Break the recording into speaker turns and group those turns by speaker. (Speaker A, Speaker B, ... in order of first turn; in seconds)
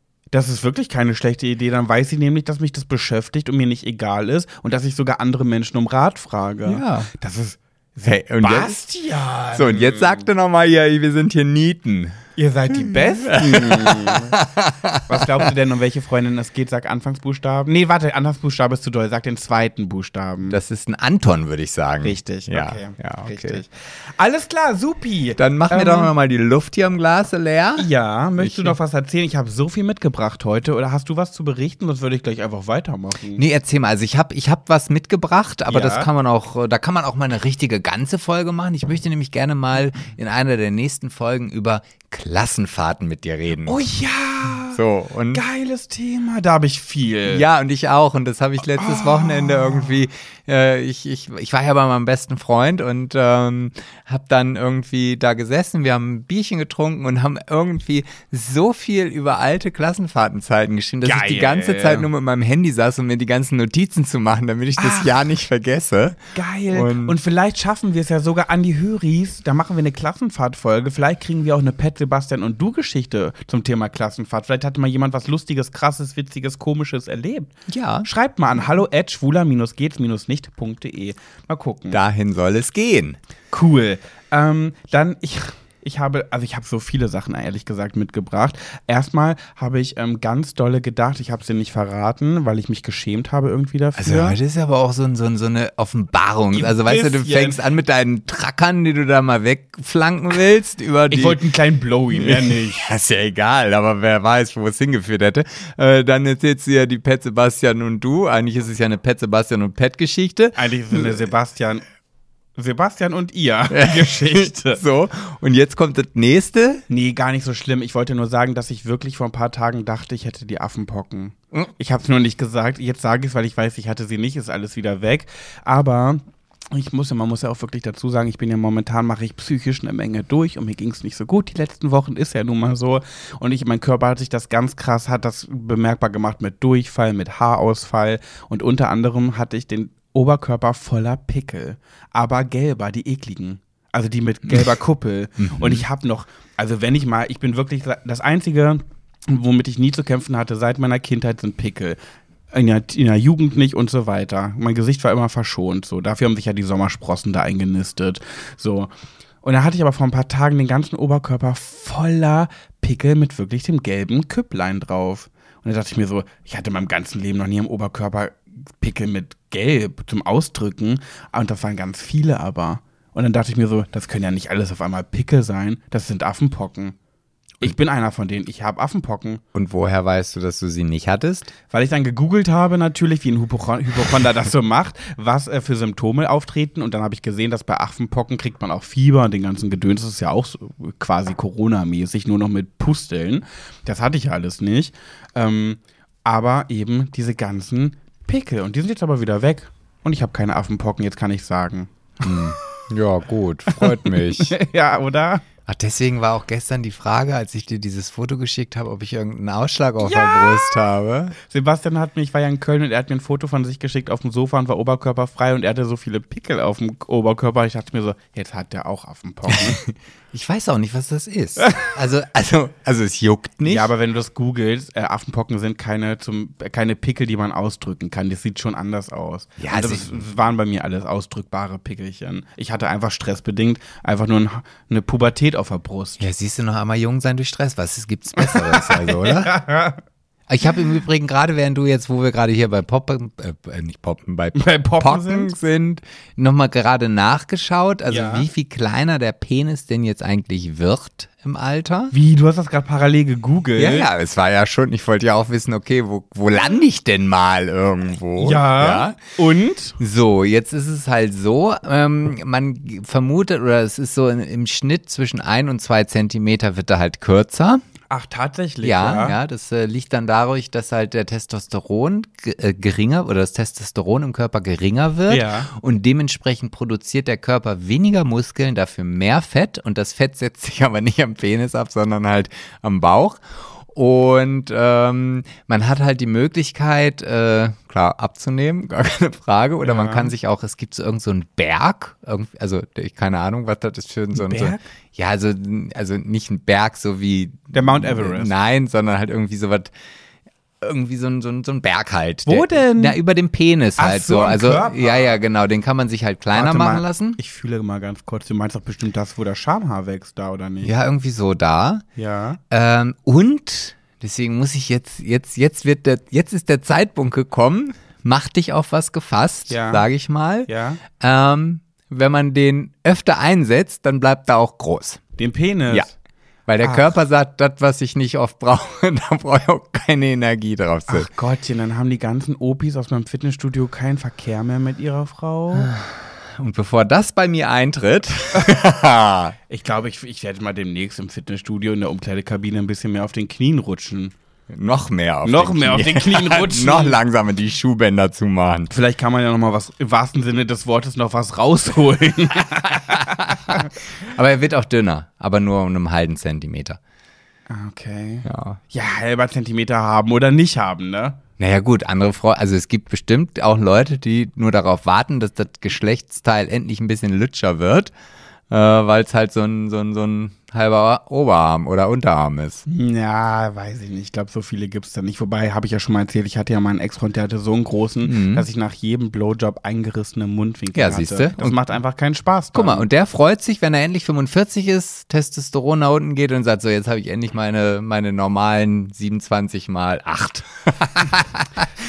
Speaker A: 0.3-10.3, 12.4-14.4, 15.1-20.6, 22.0-26.1, 27.8-33.4, 35.7-36.1, 43.6-44.8, 45.3-47.5, 48.8-49.9, 61.0-62.1, 64.8-65.2, 66.3-77.5, 78.0-82.0, 83.5-94.4, 96.5-97.6, 101.1-102.9, 110.5-111.8, 112.6-114.8, 116.9-126.2, 126.7-152.0, 152.5-158.9, 159.4-176.9, 177.6-179.4, 181.7-202.5, 203.7-205.4, 210.0-210.8, 211.4-219.8, 221.7-221.9, 223.7-236.2, 238.4-240.0, 244.6-245.5, 248.1-248.5, 252.1-254.1, 258.4-260.0, 268.1-269.4, 275.3-275.7, 289.8-290.3, 294.3-294.8, 297.7-298.5, 302.5-303.2, 304.0-305.4, 306.5-310.9, 312.2-312.6, 319.7-320.0, 320.7-321.0, 325.4-326.1, 326.8-327.1, 331.1-335.9, 339.7-344.3, 345.4-347.2, 348.9-353.9, 357.7-361.4, 372.9-383.1
Speaker B: 6.7-7.1, 8.1-8.8, 9.5-12.2, 12.7-15.5, 20.5-23.6, 25.4-27.9, 28.4-28.8, 33.4-43.8, 44.7-45.4, 47.3-66.2, 66.7-67.2, 77.7-78.1, 81.9-83.2, 94.0-101.4, 102.1-111.1, 113.7-116.8, 145.6-145.8, 179.5-181.5, 202.2-204.6, 205.7-211.4, 219.5-223.9, 229.6-230.2, 236.2-239.5, 240.5-252.1, 253.8-259.2, 260.0-267.8, 268.8-299.9, 300.8-307.4, 310.8-312.0, 312.7-325.2, 326.7-331.3, 335.8-339.6, 344.7-348.9, 353.0-357.0, 358.4-358.8, 361.6-368.1, 368.7-372.9, 378.2-378.6, 380.9-381.8, 382.7-391.9